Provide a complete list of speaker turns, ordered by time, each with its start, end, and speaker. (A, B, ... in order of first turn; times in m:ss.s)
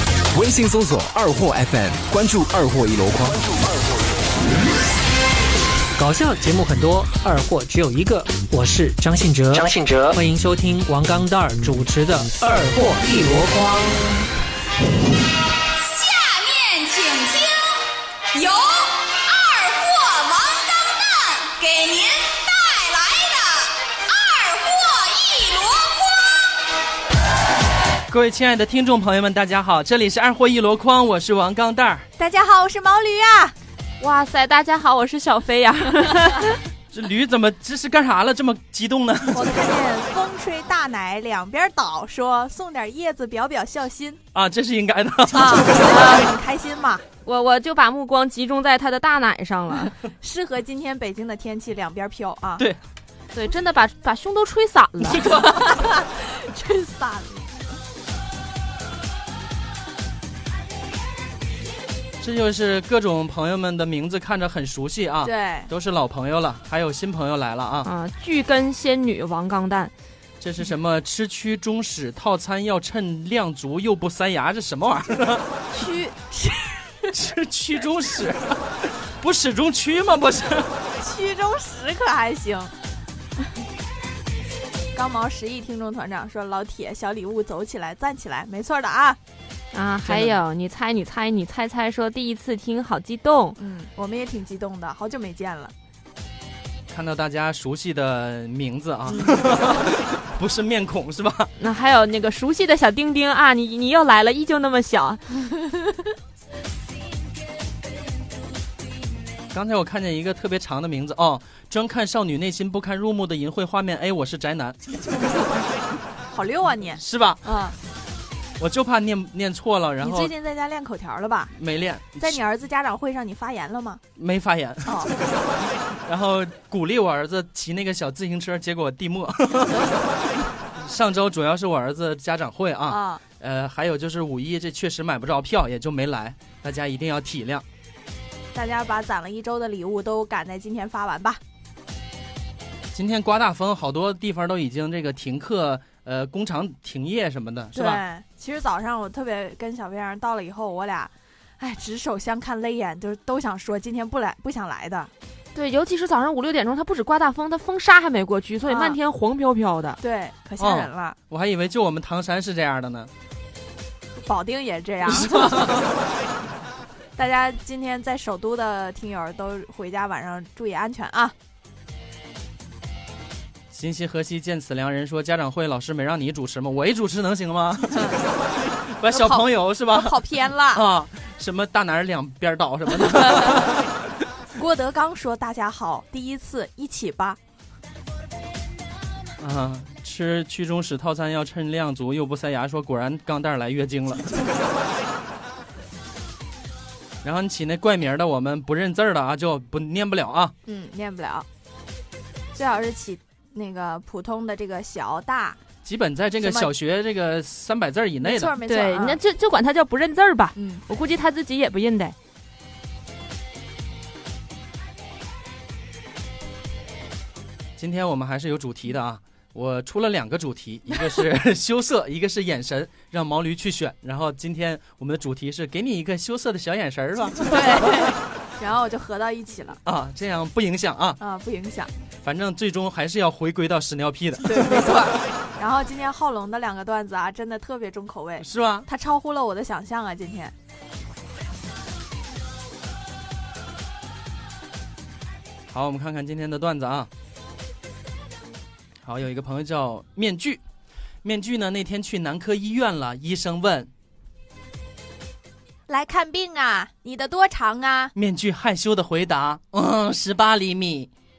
0:00.3-0:03.7 A
0:06.0-0:14.0 B
0:15.7-0:26.5 C
0:28.1-0:32.1 D
0:32.2-0:33.6 E
0:34.0-0:36.6 F
0:36.9-0:39.5 D
0:39.3-0:44.2 E
0:44.3-0:46.0 D
0:45.3-0:47.0 E
0:45.9-0:46.3 F
0:47.2-0:49.9 F
0:50.0-0:52.6 E
0:53.3-0:55.3 F
0:55.1-0:55.8 D
0:55.1-0:57.5 E
1:02.2-1:07.9 D
1:05.2-1:05.7 E
1:07.8-1:09.9 F
1:10.4-1:15.5 D
1:15.7-1:17.2 E
1:17.1-1:20.8 D
1:21.0-1:22.7 E
1:24.9-1:29.2 E
1:29.7-1:33.6 F
1:30.0-1:30.4 D
1:33.6-1:35.7 E
1:36.9-1:41.5 D
1:41.6-1:45.2 F
1:49.5-1:54.8 D
1:56.3-1:57.8 E
1:57.0-1:57.4 D
1:58.6-2:00.3 D
2:00.0-2:01.5 E
2:01.5-2:02.4 D
2:02.2-2:04.0 E
2:04.2-2:05.2 D
2:04.8-2:05.1 E
2:05.9-2:17.6 D
2:12.9-2:13.2 E
2:18.6-2:21.4 E
2:22.9-2:28.0 D
2:27.7-2:35.1 E
2:35.6-2:40.0 F
2:38.7-2:39.0 E
2:40.0-2:41.2 E
2:40.6-2:43.1 D
2:44.2-2:45.8 E
2:45.0-2:46.0 D
2:47.2-2:51.3 E
2:53.7-2:58.0 D
2:57.9-2:58.2 E
2:58.7-3:04.2 D
2:59.1-3:00.8 E
3:03.1-3:03.7 E
3:04.6-3:07.4 E
3:09.4-3:14.3 D
3:17.2-3:20.5 D
3:20.7-3:21.5 E
3:22.5-3:25.6 E
3:25.8-3:28.5 D
3:26.4-3:26.7 E
3:28.2-3:29.2 E
3:28.6-3:32.2 F
3:30.6-3:30.8 E
3:37.8-3:48.2 D
3:47.4-3:49.8 E
3:49.8-3:51.2 D
3:51.2-3:51.9 E
3:52.2-3:55.2 D
3:54.4-4:00.5 E
3:58.4-3:58.9 D
4:05.7-4:07.1 D
4:09.0-4:10.6 D
4:11.2-4:13.9 D
4:15.9-4:18.1 E
4:18.2-4:21.1 D